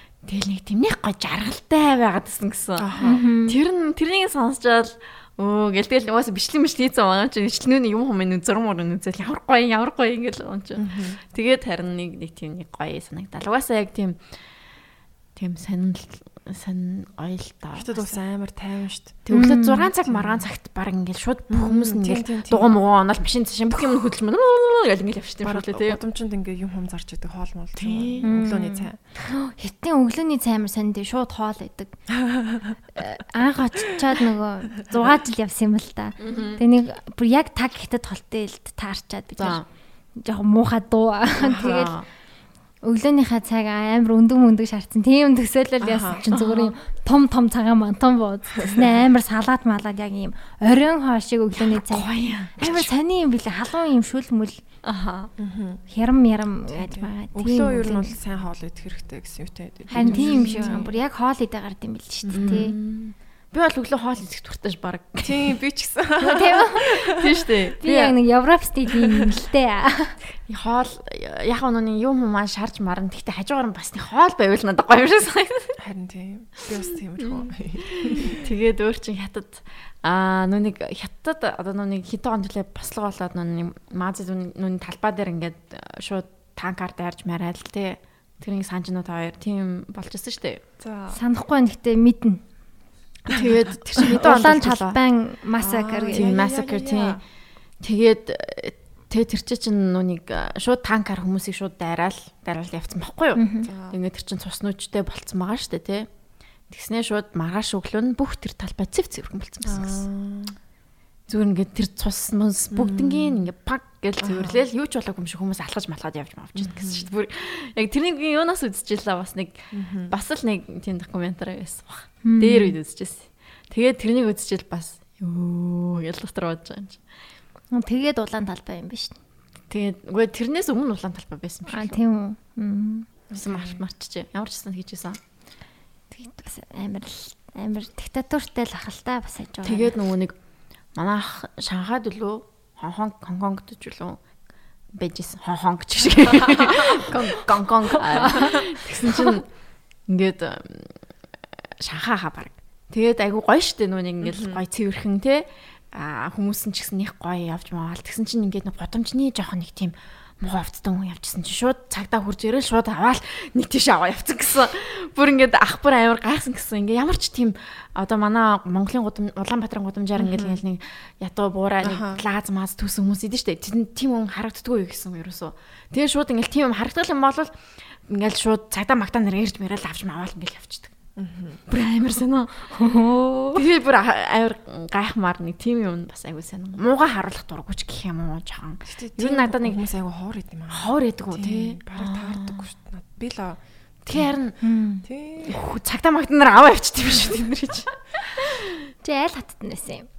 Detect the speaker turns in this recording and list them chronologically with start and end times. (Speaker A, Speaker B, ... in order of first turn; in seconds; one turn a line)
Speaker A: 0.2-14.2
Speaker B: 2.8-3.2
Speaker C: 3.0-3.6
Speaker B: 10.8-11.2
Speaker A: 15.3-18.1
Speaker B: 17.8-19.2
Speaker A: 19.3-26.0
Speaker C: 19.3-19.9
Speaker B: 21.5-22.7
Speaker B: 25.4-29.0
Speaker A: 27.8-28.3
Speaker C: 28.2-31.9
Speaker B: 32.1-32.8
Speaker C: 32.9-39.6
Speaker A: 36.2-36.6
Speaker A: 39.4-39.6
Speaker C: 40.1-41.9
Speaker B: 41.4-41.9
Speaker A: 41.5-42.0
Speaker C: 42.8-54.6
Speaker B: 45.8-46.2
Speaker A: 46.3-46.7
Speaker B: 48.6-48.9
Speaker A: 51.6-52.8
Speaker B: 52.6-52.9
Speaker A: 54.8-55.3
Speaker B: 55.4-55.8
Speaker C: 55.9-58.1
Speaker B: 56.7-60.9
Speaker A: 59.9-60.8
Speaker C: 59.9-62.7
Speaker B: 62.2-62.6
Speaker A: 62.3-65.6
Speaker B: 65.2-67.5
Speaker C: 66.2-66.9
Speaker A: 66.3-68.2
Speaker C: 67.8-70.2
Speaker A: 70.5-75.8
Speaker B: 75.8-78.5
Speaker A: 77.2-90.6
Speaker B: 90.8-91.2
Speaker C: 91.1-92.4
Speaker A: 93.3-95.0
Speaker C: 94.0-96.3
Speaker B: 95.6-97.2
Speaker A: 96.1-97.2
Speaker A: 97.8-106.1
Speaker C: 103.4-103.7
Speaker B: 103.7-104.0
Speaker A: 106.7-110.0
Speaker B: 109.7-110.5
Speaker A: 111.3-127.0
Speaker B: 112.7-113.5
Speaker B: 114.2-114.6
Speaker B: 116.5-117.1
Speaker B: 119.7-120.1
Speaker C: 122.2-122.7
Speaker C: 127.7-129.2
Speaker A: 129.7-132.0
Speaker C: 131.7-133.1
Speaker B: 133.3-133.8
Speaker A: 133.3-135.2
Speaker C: 136.1-139.9
Speaker A: 139.6-140.3
Speaker A: 140.9-144.2
Speaker A: 144.9-149.5
Speaker B: 146.3-146.9
Speaker B: 148.2-148.6
Speaker C: 148.3-148.6
Speaker A: 150.1-151.0
Speaker A: 151.8-180.9
Speaker B: 154.2-154.6
Speaker B: 170.2-170.6
Speaker B: 171.8-172.2
Speaker B: 181.2-181.6
Speaker A: 181.7-182.7
Speaker C: 182.7-183.6
Speaker A: 183.5-189.8
Speaker B: 188.9-193.6
Speaker A: 190.7-192.6
Speaker A: 194.1-194.6
Speaker C: 194.6-195.0
Speaker B: 195.0-195.6
Speaker A: 195.4-198.6
Speaker C: 199.0-200.1